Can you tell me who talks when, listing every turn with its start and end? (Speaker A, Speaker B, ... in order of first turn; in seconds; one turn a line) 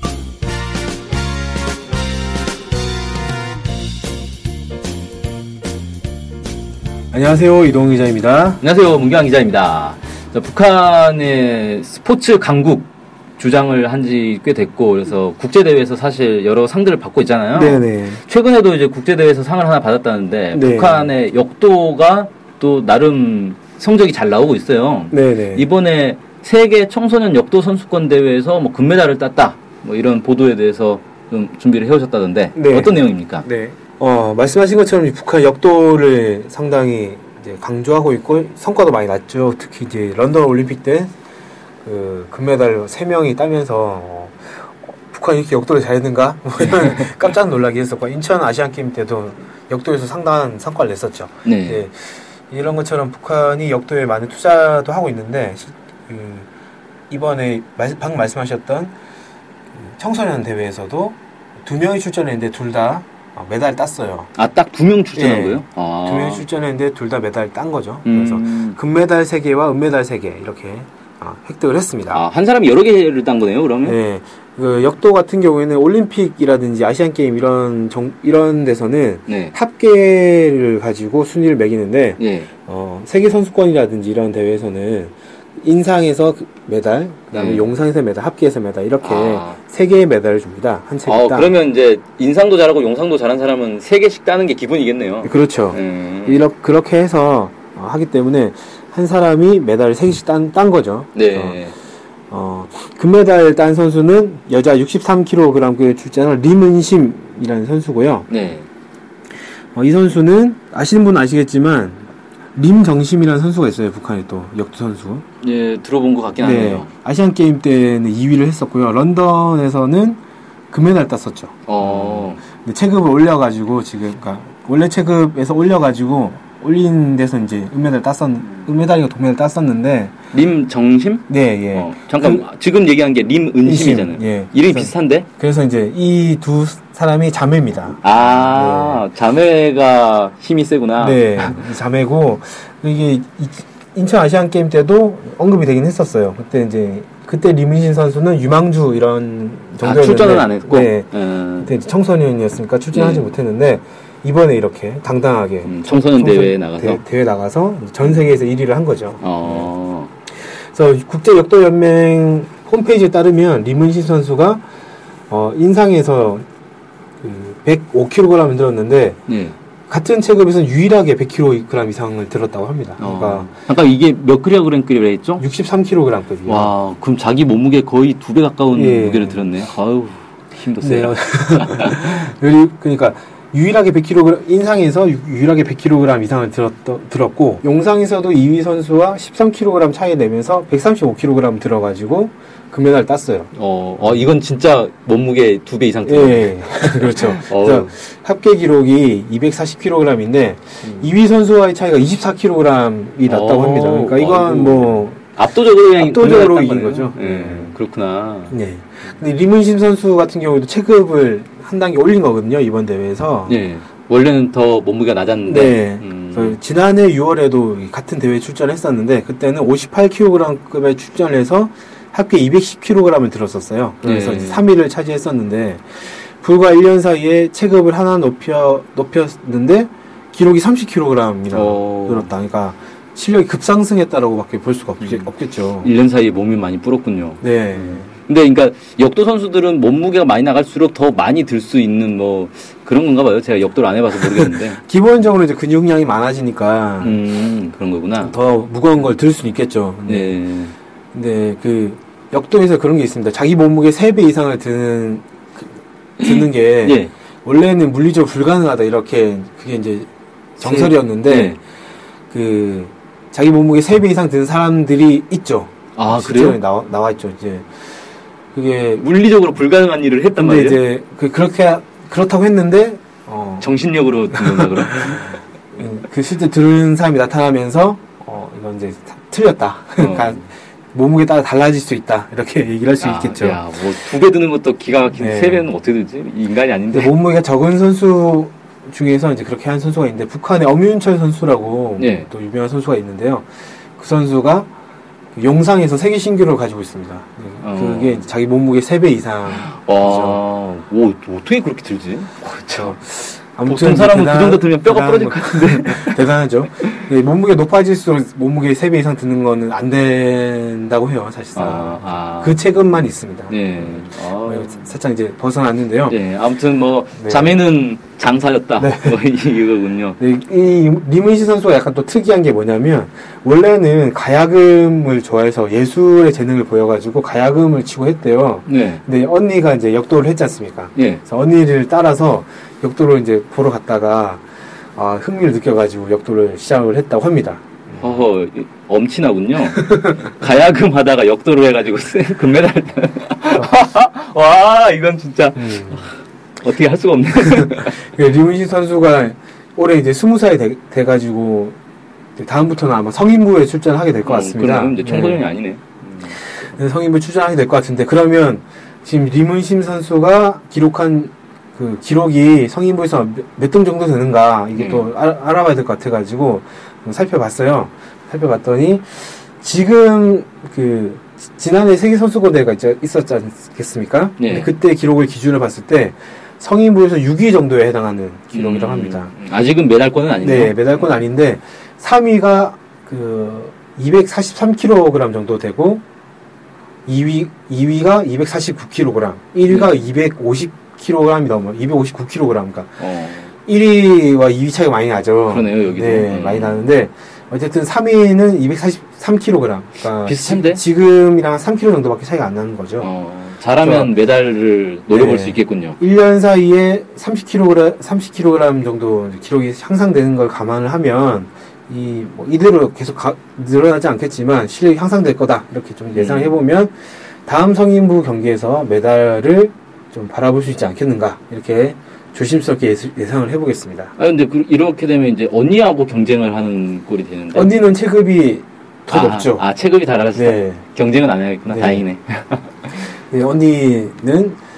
Speaker A: 7.1-8.6
Speaker B: 8.6-33.5
Speaker A: 17.5-18.2
Speaker A: 20.5-21.1
Speaker A: 25.1-25.7
Speaker A: 32.5-41.1
Speaker A: 41.8-56.5
Speaker B: 46.6-47.1
Speaker B: 51.4-51.8
Speaker A: 57.1-58.9
Speaker A: 59.7-64.3
Speaker B: 64.4-66.4
Speaker A: 65.1-72.2
Speaker B: 68.0-68.8
Speaker B: 72.1-74.0
Speaker A: 73.8-91.5
Speaker B: 79.3-79.5
Speaker B: 82.2-82.5
Speaker B: 87.3-87.7
Speaker B: 89.0-89.6
Speaker B: 91.0-96.4
Speaker A: 95.2-101.6
Speaker B: 101.1-101.8
Speaker A: 102.3-108.3
Speaker B: 108.3-108.7
Speaker A: 109.7-115.2
Speaker B: 115.4-116.9
Speaker A: 116.4-120.2
Speaker A: 120.7-130.1
Speaker B: 121.7-122.4
Speaker B: 130.3-135.3
Speaker A: 131.3-132.5
Speaker A: 133.7-139.0
Speaker B: 138.0-141.7
Speaker A: 141.0-159.7
Speaker B: 149.8-151.8
Speaker B: 152.9-153.3
Speaker B: 155.7-157.0
Speaker B: 159.2-160.1
Speaker A: 160.5-164.6
Speaker A: 165.3-166.4
Speaker A: 167.2-169.2
Speaker B: 169.3-169.6
Speaker A: 169.9-173.6
Speaker B: 173.0-175.4
Speaker A: 175.4-176.8
Speaker B: 176.4-182.1
Speaker A: 178.7-179.5
Speaker A: 180.8-194.2
Speaker B: 193.5-197.9
Speaker A: 196.0-205.2
Speaker B: 200.8-201.1
Speaker B: 203.2-208.6
Speaker A: 206.0-207.8
Speaker A: 208.5-213.6
Speaker B: 213.4-216.6
Speaker A: 215.4-235.9
Speaker B: 224.0-224.7
Speaker B: 231.5-232.3
Speaker B: 235.0-244.8
Speaker A: 237.4-238.1
Speaker A: 244.2-247.2
Speaker B: 247.0-248.4
Speaker A: 248.2-250.4
Speaker B: 250.1-250.7
Speaker A: 251.1-261.6
Speaker B: 256.2-257.1
Speaker B: 260.6-261.6
Speaker A: 262.3-267.7
Speaker B: 265.9-266.6
Speaker A: 268.5-269.1
Speaker B: 268.9-270.8
Speaker A: 270.3-273.7
Speaker B: 273.6-275.4
Speaker A: 274.3-283.6
Speaker B: 280.0-280.4
Speaker B: 283.0-287.1
Speaker A: 285.1-285.7
Speaker A: 286.9-294.7
Speaker B: 292.0-292.3
Speaker A: 295.3-300.4
Speaker B: 297.6-298.3
Speaker B: 299.5-303.0
Speaker A: 302.8-316.2
Speaker B: 303.6-306.2
Speaker B: 311.6-312.7
Speaker B: 313.5-315.0
Speaker B: 316.1-320.2
Speaker A: 317.1-317.6
Speaker A: 318.8-319.2
Speaker A: 320.2-334.4
Speaker B: 328.6-329.0
Speaker B: 330.9-331.2
Speaker A: 334.9-338.2
Speaker B: 338.0-348.0
Speaker A: 339.7-340.3
Speaker A: 345.6-346.0
Speaker A: 347.5-351.8
Speaker A: 352.4-355.4
Speaker B: 354.2-356.4
Speaker A: 356.6-379.3
Speaker B: 364.8-365.1
Speaker B: 374.4-374.7
Speaker B: 378.5-381.1
Speaker A: 380.4-386.0
Speaker A: 387.1-393.0
Speaker B: 389.7-390.0
Speaker B: 393.0-393.5
Speaker A: 393.6-403.1
Speaker B: 395.4-396.9
Speaker B: 400.2-400.8
Speaker B: 403.0-406.0
Speaker A: 403.8-404.1
Speaker A: 405.1-424.1
Speaker B: 416.1-416.5
Speaker B: 424.2-427.8
Speaker A: 427.5-429.6
Speaker B: 429.1-433.1
Speaker A: 430.3-430.8
Speaker A: 431.7-432.1
Speaker A: 433.3-434.6